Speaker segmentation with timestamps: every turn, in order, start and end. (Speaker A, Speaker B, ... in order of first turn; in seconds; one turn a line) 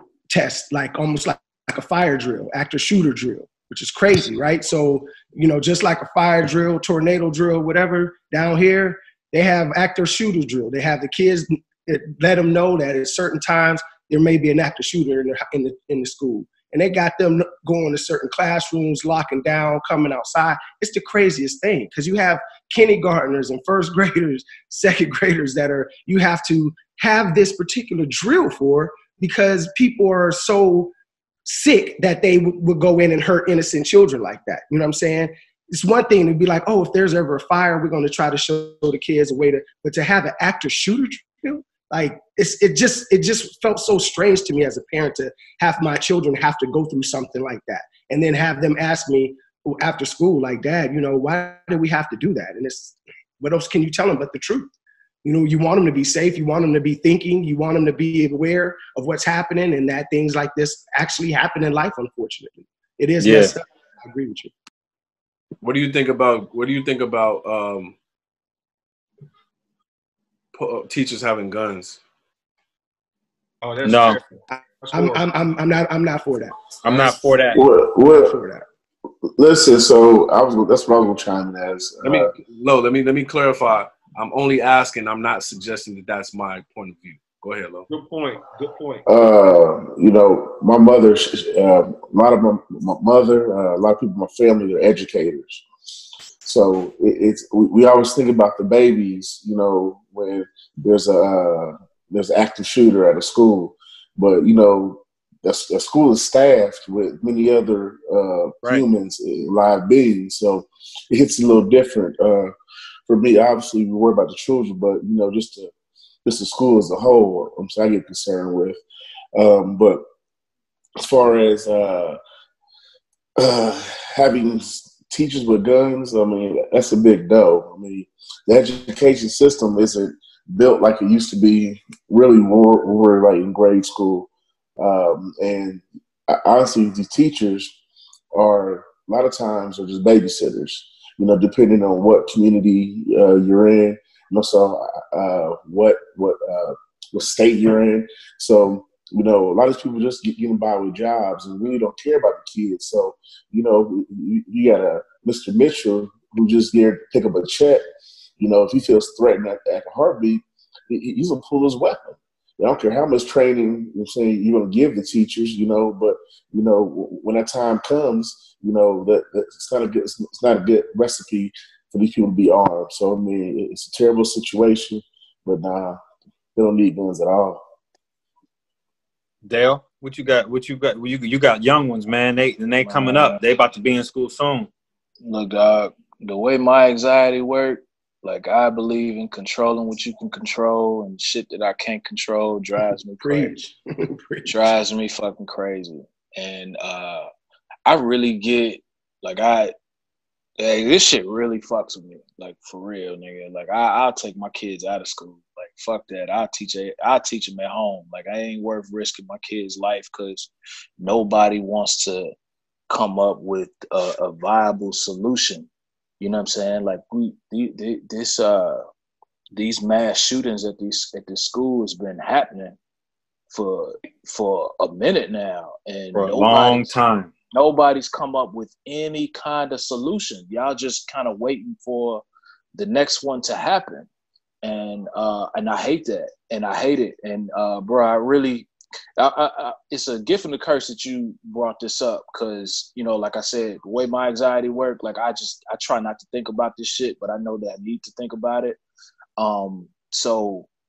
Speaker A: 0.3-30.9
Speaker A: 31.4-54.7
Speaker A: 55.2-64.5
Speaker B: 63.2-63.5
Speaker C: 65.6-68.0
Speaker C: 70.5-72.0
Speaker D: 73.6-74.3
Speaker B: 73.8-74.2
Speaker A: 74.5-78.6
Speaker D: 74.8-75.3
Speaker B: 76.8-77.6
Speaker E: 77.5-78.4
Speaker E: 79.4-82.3
Speaker C: 82.0-87.9
Speaker D: 87.9-89.0
Speaker E: 89.0-95.6
Speaker E: 96.4-112.5
Speaker E: 113.1-115.7
Speaker E: 116.2-118.8
Speaker E: 119.3-120.0
Speaker E: 121.0-122.2
Speaker E: 123.4-137.8
Speaker E: 138.3-157.8
Speaker E: 158.4-176.0
Speaker E: 176.6-177.6
Speaker B: 179.4-184.7
Speaker F: 182.8-183.4
Speaker F: 185.2-193.6
Speaker A: 193.2-194.7
Speaker F: 194.4-197.3
Speaker F: 197.8-199.7
Speaker F: 200.6-212.3
Speaker F: 212.9-215.7
Speaker F: 216.2-218.8
Speaker F: 219.5-222.8
Speaker F: 223.5-226.9
Speaker B: 226.1-227.3
Speaker F: 227.5-232.2
Speaker F: 232.8-234.1
Speaker F: 234.6-248.8
Speaker F: 249.4-250.7